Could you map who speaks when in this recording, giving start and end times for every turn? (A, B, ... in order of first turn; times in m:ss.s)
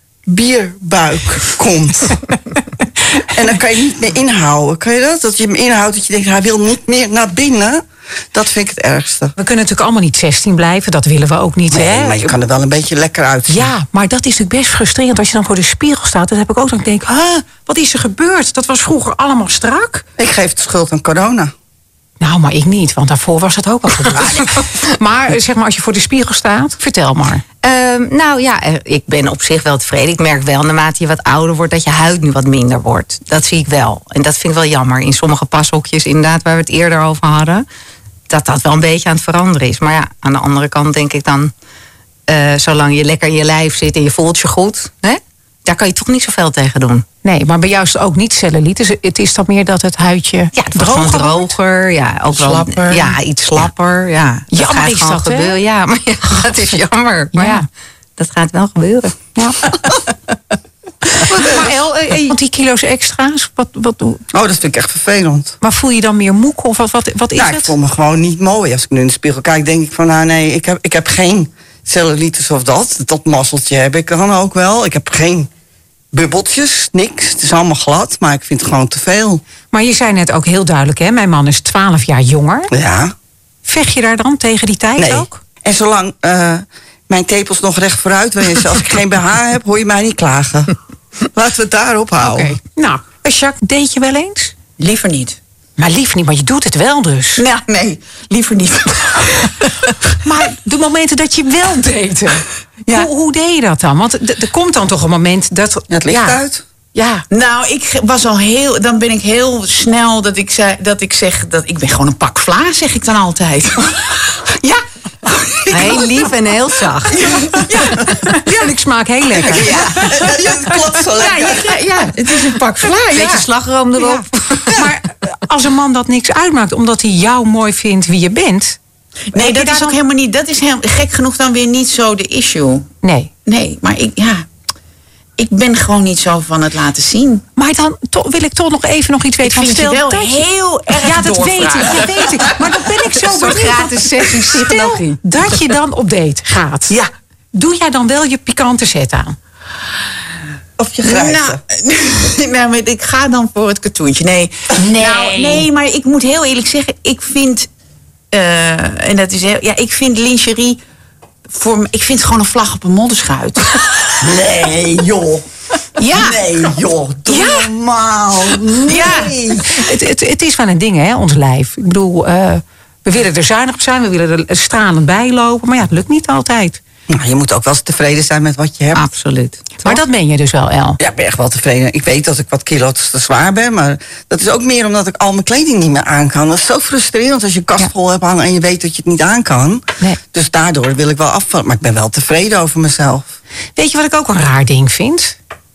0:00.3-0:02.2 A
0:03.2-0:09.3 A
0:09.4-0:12.3 B
0:11.7-0:13.7 A
0:13.5-0:20.0 B
0:20.2-0:21.5 A
0:22.2-0:27.4 B
0:27.6-0:37.6 C
0:38.3-0:41.5 C
0:42.3-0:47.1 C
0:47.2-0:51.6 B
0:50.5-0:57.6 C
0:52.3-0:53.7 D
0:54.5-0:55.6 B
0:57.3-0:57.7 B
0:58.2-0:59.2 C
1:01.2-1:04.2 B
1:04.3-1:05.6 A
1:05.6-1:07.7 B
1:07.4-1:15.5 A
1:16.1-1:19.4 A
1:19.7-1:22.7 B
1:22.7-1:23.1 A
1:23.6-1:25.4 B
1:25.0-1:30.8 A
1:31.3-1:32.6 A
1:32.2-1:34.6 B
1:34.8-1:35.4 D
1:35.8-1:37.4 B
1:37.4-1:40.0 D
1:40.2-1:46.4 B
1:45.9-1:46.6 A
1:46.9-1:47.2 B
1:47.3-1:56.3 D
1:55.7-1:57.3 C
1:57.0-1:58.4 D
1:57.6-2:00.8 B
1:59.4-2:01.8 A
1:59.5-2:00.4 D
2:01.2-2:03.5 D
2:03.1-2:04.8 C
2:04.0-2:08.8 B
2:09.3-2:12.9 D
2:09.3-2:10.0 B
2:13.0-2:13.3 B
2:13.5-2:14.5 D
2:15.4-2:17.4 D
2:17.6-2:27.0 B
2:19.4-2:25.0 D
2:23.3-2:25.0 C
2:27.5-2:29.4 B
2:30.8-2:31.6 A
2:31.0-2:37.7 D
2:35.0-2:35.6 B
2:38.3-2:40.8 D
2:41.5-2:44.2 D
2:44.2-2:45.4 A
2:46.0-2:46.7 D
2:46.0-2:49.8 A
2:47.3-2:47.7 D
2:48.8-2:49.4 D
2:49.6-2:56.8 B
2:57.1-2:59.0 A
2:59.0-3:00.0 C
2:59.8-3:01.0 B
3:01.0-3:13.4 A
3:13.8-3:15.4 B